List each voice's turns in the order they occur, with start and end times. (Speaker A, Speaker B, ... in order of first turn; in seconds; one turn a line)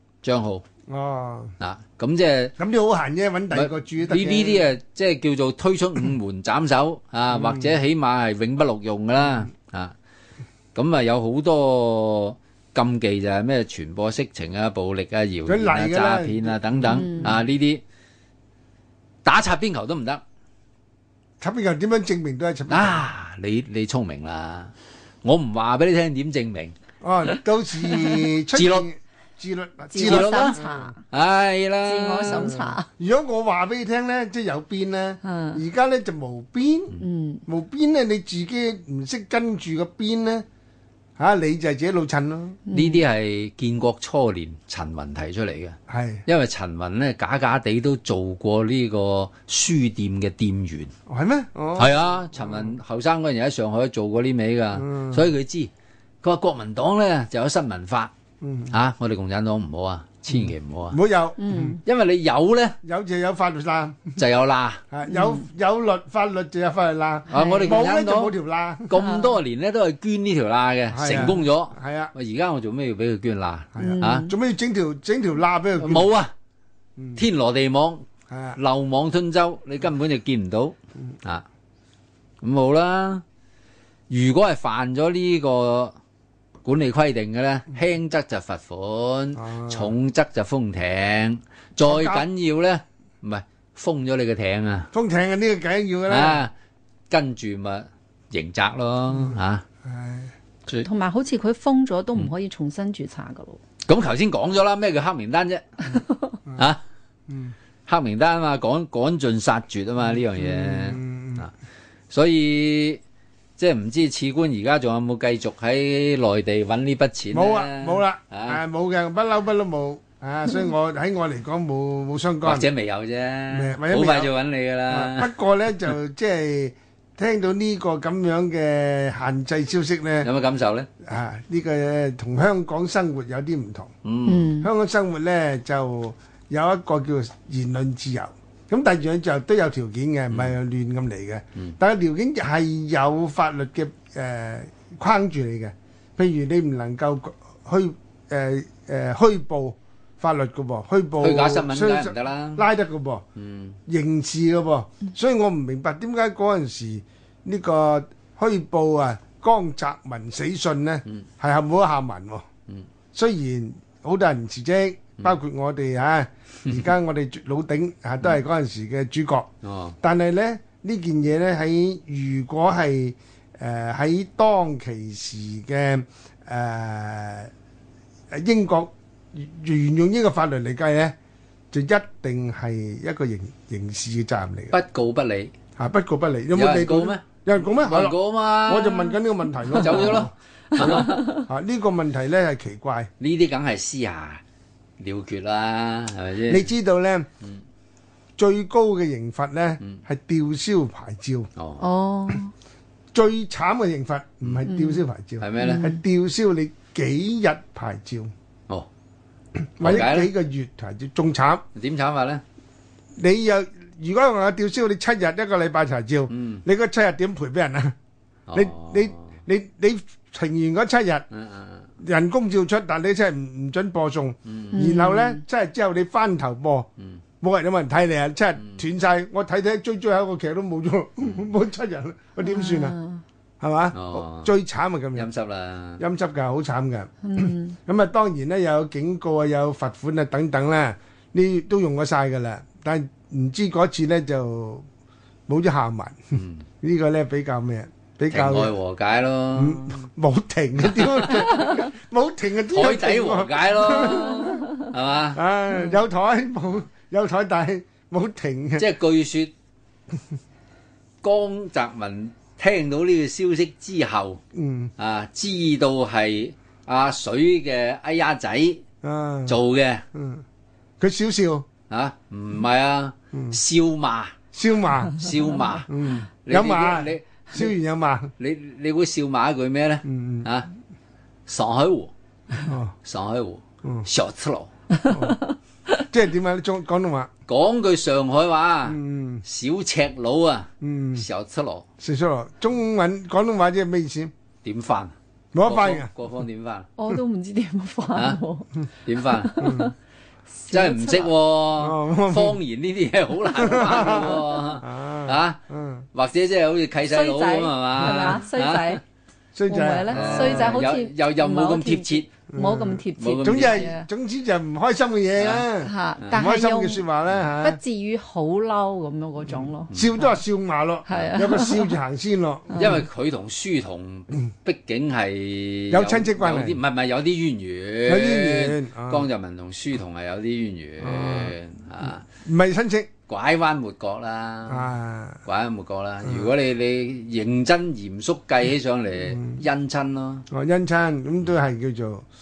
Speaker A: 0.2-0.6
Speaker B: 0.9-1.6
Speaker A: 1.6-2.5
Speaker B: 2.6-4.7
Speaker A: 3.5-9.9
Speaker B: 7.3-7.7
Speaker A: 10.8-17.8
Speaker B: 15.5-17.3
Speaker C: 16.8-17.3
Speaker A: 19.2-20.2
Speaker B: 21.4-23.0
Speaker A: 22.7-26.7
Speaker B: 27.0-30.9
Speaker A: 28.5-28.9
Speaker C: 29.9-31.0
Speaker A: 30.0-30.6
Speaker A: 31.1-32.5
Speaker C: 31.9-32.9
Speaker B: 32.3-40.5
Speaker C: 35.2-35.6
Speaker C: 37.0-37.4
Speaker B: 41.2-42.6
Speaker C: 42.7-43.0
Speaker A: 42.7-50.9
Speaker B: 45.9-46.2
Speaker B: 51.1-52.7
Speaker A: 51.8-55.7
Speaker B: 54.7-55.3
Speaker A: 56.2-58.1
Speaker B: 58.4-58.7
Speaker A: 58.7-61.0
Speaker B: 60.9-61.8
Speaker C: 61.4-61.8
Speaker A: 61.8-62.8
Speaker B: 62.8-64.2
Speaker A: 64.2-64.8
Speaker B: 64.9-68.9
Speaker C: 65.1-65.4
Speaker A: 67.3-68.3
Speaker C: 67.3-67.8
Speaker A: 68.8-74.3
Speaker C: 69.0-69.4
Speaker B: 70.9-72.1
Speaker B: 73.8-76.1
Speaker C: 73.8-74.3
Speaker A: 75.8-76.3
Speaker A: 77.2-81.4
Speaker B: 78.3-78.6
Speaker A: 82.4-83.2
Speaker A: 84.1-86.0
Speaker A: 86.7-94.9
Speaker B: 89.4-89.9
Speaker B: 91.8-92.3
Speaker B: 94.9-96.4
Speaker A: 96.1-96.5
Speaker A: 97.1-99.7
Speaker B: 99.2-100.3
Speaker C: 100.8-103.6
Speaker A: 103.9-106.0
Speaker A: 106.5-106.8
Speaker B: 107.3-107.5
Speaker A: 107.9-111.5
Speaker B: 110.1-111.5
Speaker A: 112.1-113.0
Speaker A: 113.6-118.6
Speaker B: 117.3-122.7
Speaker A: 122.4-125.3
Speaker B: 123.5-124.3
Speaker B: 124.9-130.3
Speaker A: 130.2-130.9
Speaker B: 131.0-133.9
Speaker A: 134.1-134.5
Speaker C: 134.3-134.7
Speaker B: 134.6-153.2
Speaker A: 140.3-140.6
Speaker A: 151.2-152.7
Speaker A: 153.4-153.8
Speaker B: 153.9-162.5
Speaker B: 163.1-169.5
Speaker A: 169.6-170.0
Speaker B: 170.0-177.5
Speaker B: 178.3-181.2
Speaker B: 181.7-184.7
Speaker A: 184.7-185.5
Speaker B: 185.8-193.1
Speaker A: 186.5-189.2
Speaker A: 189.7-191.2
Speaker C: 190.8-191.4
Speaker A: 193.2-194.4
Speaker A: 195.0-196.7
Speaker B: 196.5-197.3
Speaker B: 198.4-201.5
Speaker A: 201.6-201.8
Speaker C: 201.8-202.5
Speaker B: 203.1-208.3
Speaker C: 204.7-205.0
Speaker A: 205.4-205.9
Speaker C: 205.6-206.0
Speaker B: 209.6-211.6
Speaker A: 209.8-210.3
Speaker A: 211.8-212.4
Speaker B: 213.2-218.0
Speaker A: 216.3-216.6
Speaker A: 218.5-219.3
Speaker B: 218.5-221.3
Speaker A: 221.3-221.9
Speaker B: 222.0-226.9
Speaker A: 224.5-224.8
Speaker C: 224.7-225.4
Speaker B: 227.4-233.0
Speaker C: 232.4-233.2
Speaker B: 233.6-235.3
Speaker A: 233.9-234.5
Speaker A: 235.2-236.0
Speaker B: 236.0-244.9
Speaker C: 237.2-237.8
Speaker B: 245.5-248.7
Speaker A: 246.3-246.7
Speaker A: 248.3-250.1
Speaker B: 249.6-254.7
Speaker A: 250.9-251.7
Speaker A: 252.7-255.4
Speaker B: 255.3-258.9
Speaker A: 258.8-259.5
Speaker A: 261.2-264.4
Speaker B: 264.5-264.9
Speaker A: 265.0-268.8
Speaker B: 269.0-269.6
Speaker A: 269.5-270.0
Speaker B: 270.1-270.4
Speaker B: 271.0-271.7
Speaker A: 271.9-274.4
Speaker B: 274.5-275.2
Speaker A: 275.2-275.9
Speaker B: 275.9-278.3
Speaker A: 276.4-277.7
Speaker A: 278.4-280.7
Speaker B: 280.1-280.5
Speaker A: 281.5-282.1
Speaker B: 282.6-282.9
Speaker A: 283.0-284.7
Speaker B: 285.1-285.4
Speaker B: 286.1-287.3
Speaker A: 287.5-291.9
Speaker B: 288.9-289.4
Speaker B: 290.8-291.3
Speaker B: 292.0-294.3
Speaker A: 294.6-296.9
Speaker B: 295.5-296.1
Speaker C: 297.0-298.7
Speaker A: 299.1-299.9
Speaker C: 299.2-299.9
Speaker B: 299.6-299.9
Speaker C: 300.6-301.3
Speaker A: 300.7-305.6
Speaker B: 301.8-302.6
Speaker B: 303.6-306.1
Speaker A: 306.1-309.0
Speaker C: 307.0-309.0
Speaker B: 309.5-310.9
Speaker C: 309.7-314.1
Speaker A: 310.1-312.3
Speaker B: 312.5-317.8
Speaker A: 313.2-313.9
Speaker A: 315.4-315.6
Speaker C: 315.8-317.1
Speaker C: 317.6-320.4
Speaker B: 319.5-322.9
Speaker C: 321.1-322.0
Speaker C: 322.7-323.0
Speaker A: 322.7-332.2
Speaker B: 325.9-326.8
Speaker B: 328.1-329.3
Speaker B: 331.0-331.6
Speaker B: 332.3-333.1
Speaker A: 333.3-334.9
Speaker B: 334.7-335.4
Speaker A: 335.4-340.4
Speaker B: 336.2-336.5
Speaker B: 339.3-339.6
Speaker B: 340.5-342.2